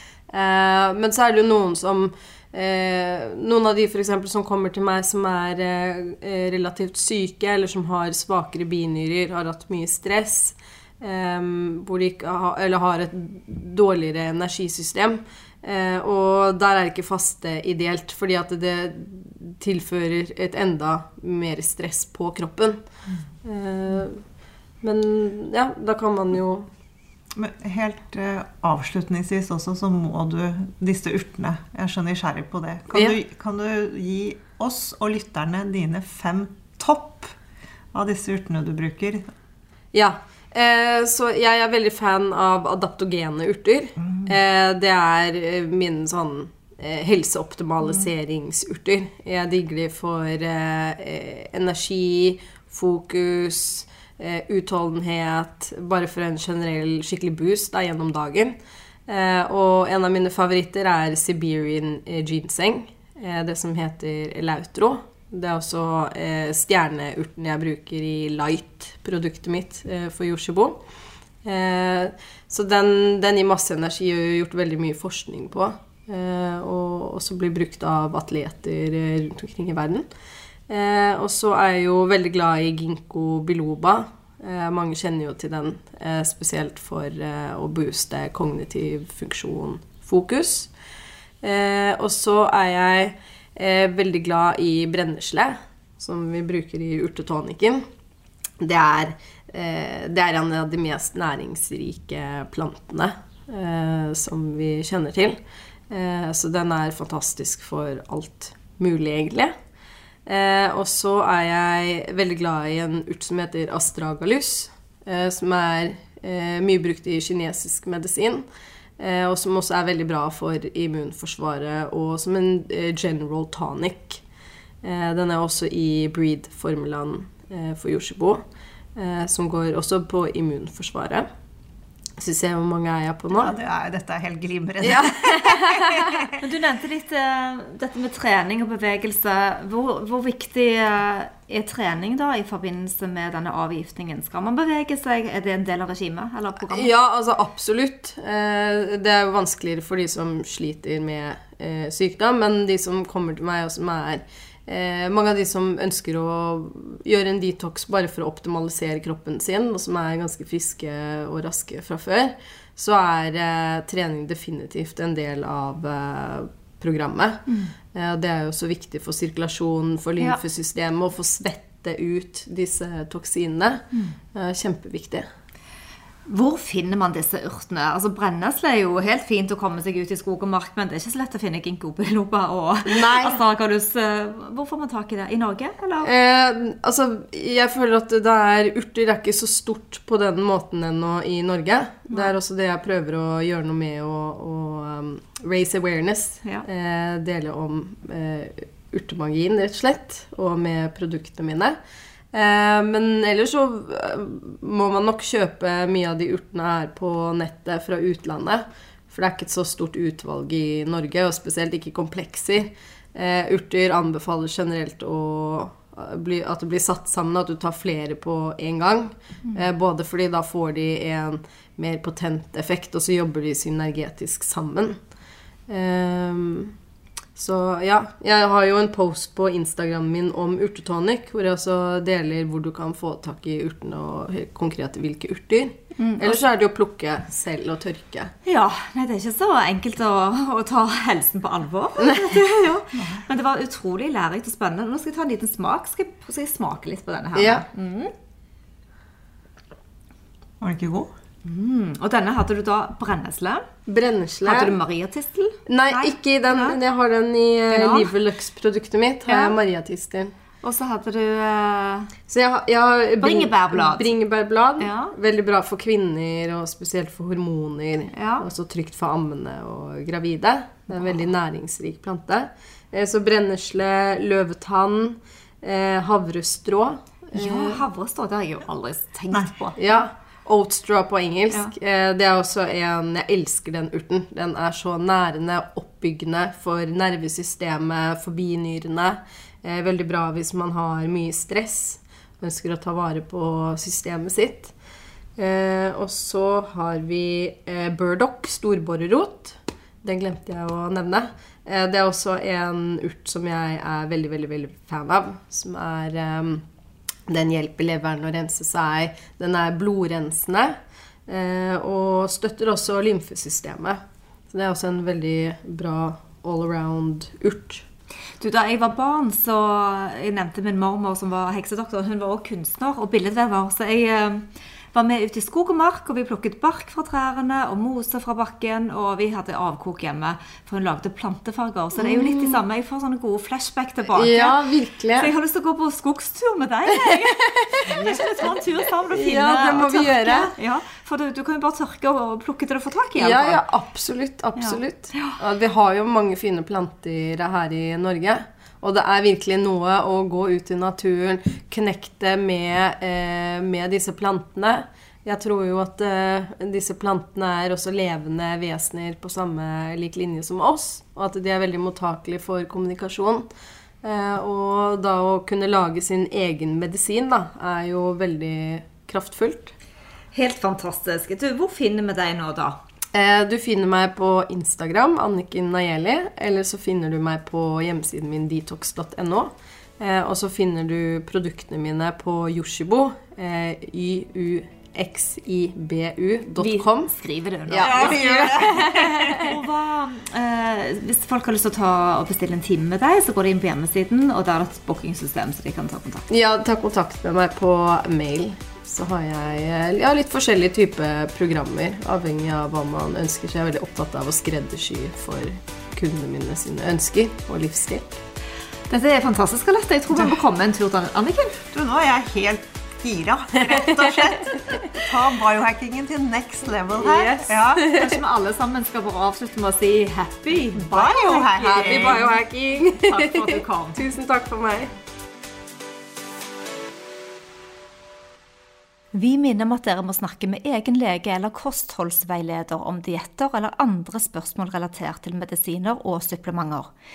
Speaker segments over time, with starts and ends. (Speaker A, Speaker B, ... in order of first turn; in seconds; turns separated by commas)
Speaker A: 0.3-22.8, Speaker A: 23.4-24.2, Speaker A: 24.8-26.7, Speaker B: 27.4-37.4, Speaker B: 37.9-39.3, Speaker A: 39.9-70.8, Speaker A: 71.4-80.1, Speaker A: 80.7-90.7, Speaker A: 91.4-97.8, Speaker A: 98.6-109.5, Speaker A: 110.3-118.5, Speaker A: 119.0-124.2, Speaker A: 124.8-128.4, Speaker A: 128.9-131.3, Speaker A: 132.2-133.5, Speaker B: 133.3-136.4, Speaker A: 134.8-136.3, Speaker C: 136.4-146.9, Speaker A: 146.7-175.3, Speaker C: 167.5-167.7, Speaker C: 176.3-186.1, Speaker A: 182.9-183.4, Speaker A: 186.0-201.8, Speaker A: 202.3-225.0, Speaker A: 225.7-226.8, Speaker A: 227.3-238.3, Speaker C: 236.0-236.4, Speaker C: 238.4-248.1, Speaker A: 242.0-242.4, Speaker B: 242.9-243.2, Speaker A: 247.4-247.7, Speaker B: 250.6-251.1, Speaker C: 251.4-253.7, Speaker A: 253.9-254.8, Speaker C: 254.4-256.8, Speaker A: 255.7-260.3, Speaker C: 257.7-258.1, Speaker C: 259.3-259.6, Speaker C: 260.6-262.1, Speaker A: 262.3-277.8, Speaker C: 263.2-264.1, Speaker C: 264.8-265.1, Speaker C: 268.1-268.5, Speaker C: 277.3-280.0, Speaker A: 279.8-294.7, Speaker A: 295.4-306.6, Speaker A: 307.3-314.0, Speaker A: 314.5-317.9, Speaker C: 318.4-334.6, Speaker A: 332.0-332.6, Speaker A: 334.1-335.3, Speaker C: 335.1-343.6, Speaker A: 336.9-340.5, Speaker B: 337.9-338.2, Speaker A: 343.2-363.5, Speaker C: 344.6-345.4, Speaker A: 364.0-369.7, Speaker C: 370.3-372.8, Speaker A: 373.1-387.2, Speaker C: 386.6-396.3, Speaker A: 387.7-389.6, Speaker A: 396.3-408.2, Speaker C: 408.9-411.6, Speaker B: 411.7-417.9, Speaker A: 413.8-414.5, Speaker A: 417.0-418.2, Speaker C: 417.5-424.0, Speaker B: 420.8-422.2, Speaker A: 421.6-424.9, Speaker C: 429.1-436.9